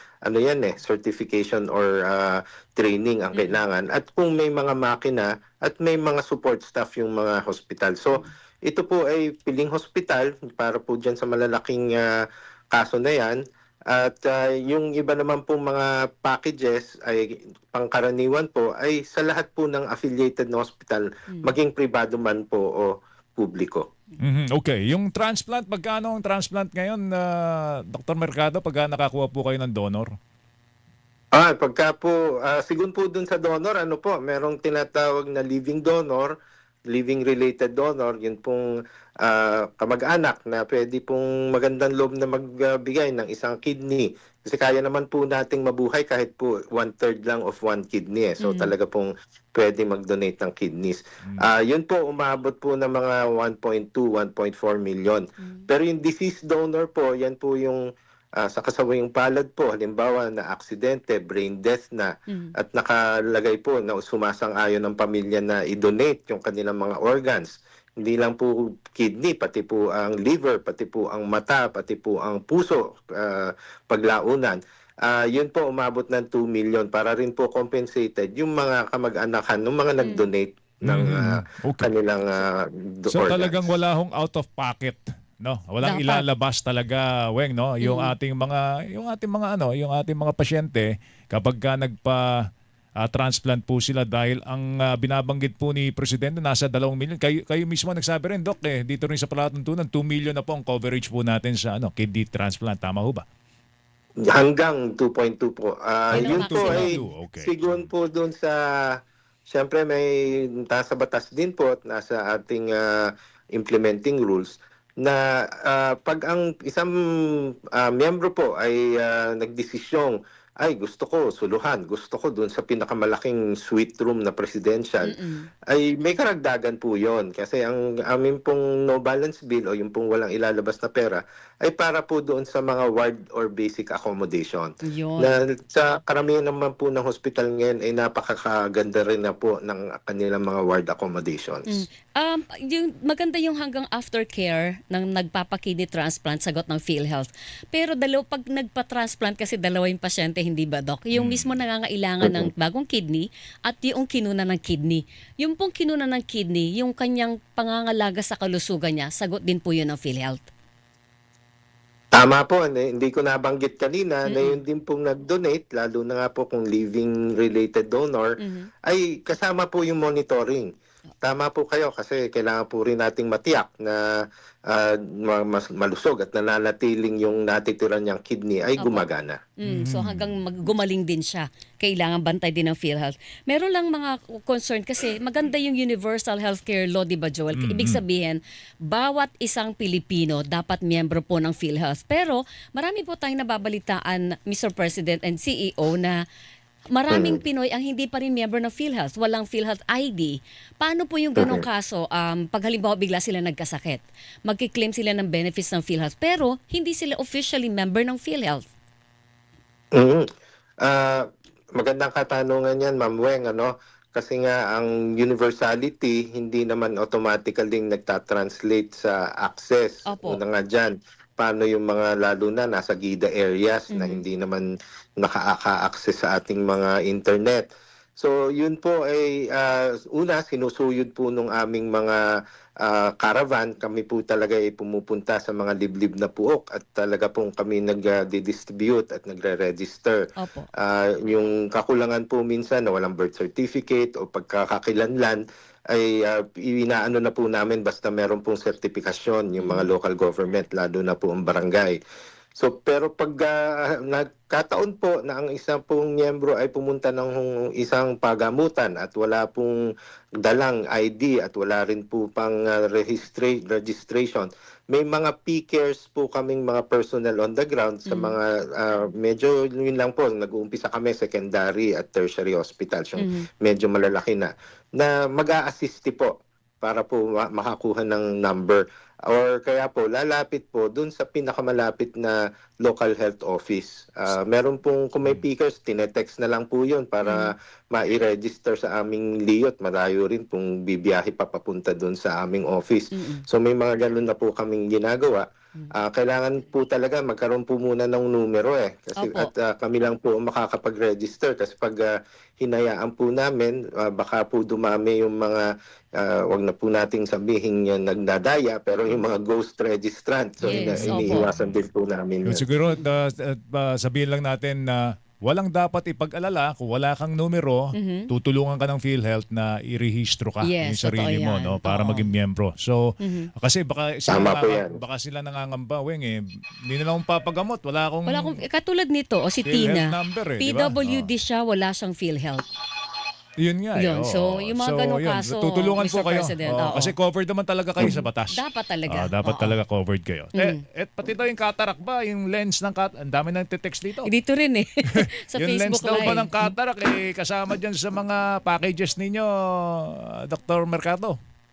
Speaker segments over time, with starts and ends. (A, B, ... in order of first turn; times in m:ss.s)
0:00.2-0:23.8 A
0:03.3-0:03.6 B
0:21.3-0:21.5 B
0:24.2-0:30.2 C
0:31.3-0:36.3 A
0:36.9-0:38.7 A
0:39.2-0:57.8 A
0:48.4-0:48.8 B
0:55.4-0:55.6 B
0:58.4-1:23.8 A
1:02.3-1:02.5 B
1:20.0-1:20.3 B
1:20.8-1:21.9 C
1:23.1-1:32.3 C
1:25.8-1:26.2 B
1:27.8-1:28.1 B
1:33.0-1:43.2 C
1:44.3-1:49.0 A
1:46.1-1:46.9 B
1:46.1-1:47.9 C
1:49.5-2:05.1 A
2:05.0-2:05.5 B
2:05.7-2:21.8 A
2:14.8-2:15.3 B
2:21.7-2:40.4 B
2:31.1-2:31.6 C
2:32.2-2:32.5 A
2:42.1-2:50.7 A
2:44.3-2:44.6 B
2:48.4-2:48.7 B
2:51.2-2:59.4 A
2:58.8-2:59.0 B
2:59.6-3:16.2 B
2:59.6-3:00.3 C
3:07.5-3:08.0 C
3:16.9-3:28.7 B
3:17.1-3:17.4 A
3:21.4-3:21.6 A
3:29.9-3:30.2 A
3:30.8-3:31.2 A
3:31.8-3:44.6 A
3:40.1-3:40.4 B
3:43.9-3:44.2 B
3:45.2-3:47.6 A
3:48.2-3:52.2 A
3:52.8-4:00.2 A
4:00.4-4:00.7 B
4:00.8-4:12.0 A
4:09.6-4:09.9 B
4:12.6-4:19.8 A
4:20.4-5:05.7 A
4:28.1-4:28.4 B
4:33.2-4:33.4 B
4:47.2-4:47.5 B
4:53.1-4:53.4 B
4:59.2-4:59.5 B
5:06.2-5:12.6 A
5:10.6-5:11.8 C
5:10.6-5:11.5 B
5:12.5-5:28.6 C
5:17.9-5:18.3 B
5:20.6-5:22.3 B
5:23.2-5:23.5 B
5:24.3-5:25.0 A
5:28.3-5:32.6 B
5:29.6-5:31.3 C
5:33.6-5:44.3 C
5:34.0-5:37.1 B
5:38.5-5:39.8 B
5:40.5-5:40.8 B
5:44.2-5:46.7 B
5:45.1-5:51.4 C